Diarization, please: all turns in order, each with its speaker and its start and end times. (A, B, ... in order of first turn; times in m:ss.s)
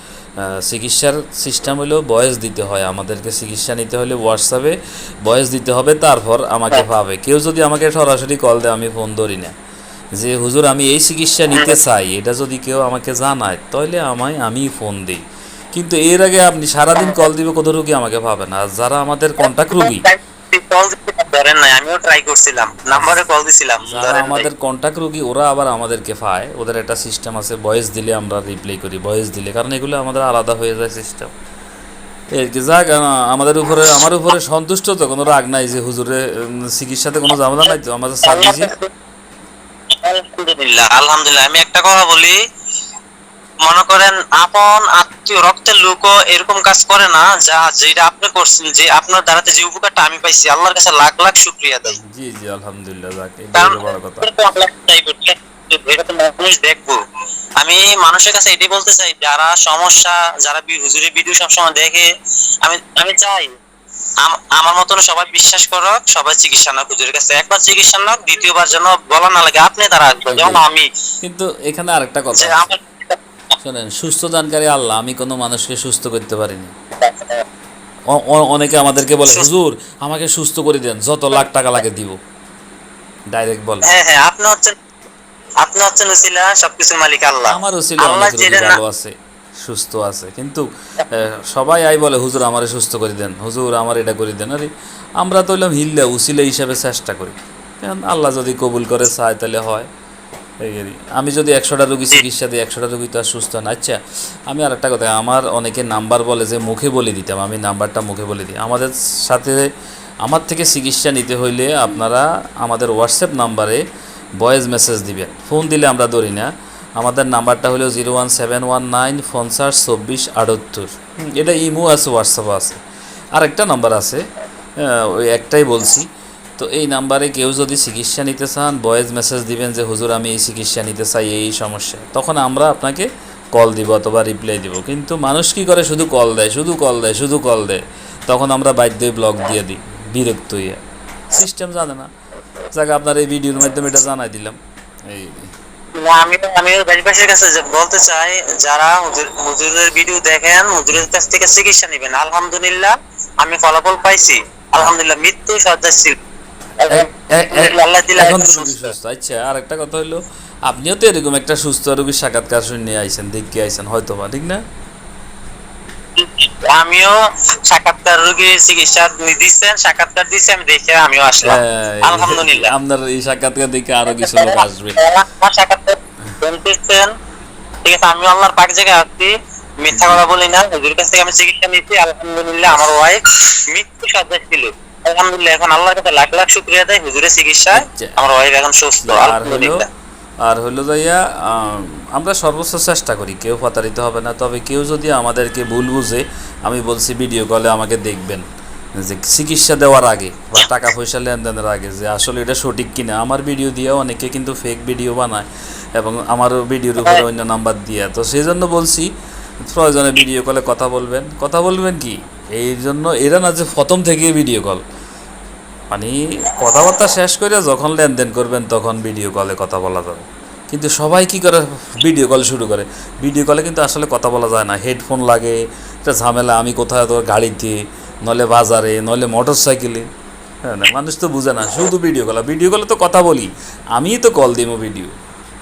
0:00.4-0:09.5 A
0:10.2-0:15.2 A
0:15.7-0:20.0 A
0:19.7-0:24.5 B
0:22.8-0:23.2 A
0:23.8-0:31.3 A
0:32.4-0:38.7 A
0:38.2-0:38.9 B
0:40.0-0:42.4 B
0:43.6-0:52.0 B
0:52.1-0:54.3 A
0:53.5-0:57.0 B
0:57.6-1:02.1 B
1:02.6-1:03.5 B
1:04.2-1:10.9 B
1:10.3-1:10.6 A
1:11.2-1:12.7 A
1:12.3-1:13.2 B
1:13.6-1:16.7 A
1:17.0-1:17.4 B
1:18.1-1:22.2 A
1:23.3-1:23.8 A
1:23.9-1:24.7 B
1:25.6-1:28.8 B
1:27.5-1:39.9 A
1:40.6-1:44.0 A
1:44.5-1:49.6 A
1:50.2-1:53.8 A
1:54.4-2:02.8 A
2:03.3-2:04.2 A
2:04.8-2:20.8 A
2:21.3-2:22.1 A
2:22.7-2:25.5 A
2:26.0-2:36.2 B
2:36.8-2:38.9 B
2:36.9-2:44.6 A
2:46.2-2:47.2 B
2:47.7-2:52.7 B
2:51.4-2:55.0 A
2:54.1-2:57.1 B
2:57.8-3:09.9 B
2:59.9-3:00.2 A
3:07.7-3:08.2 A
3:09.0-3:09.9 A
3:10.4-3:18.4 A
3:19.0-3:29.0 A
3:29.7-3:34.8 A
3:35.9-3:50.1 A
3:50.6-3:55.1 A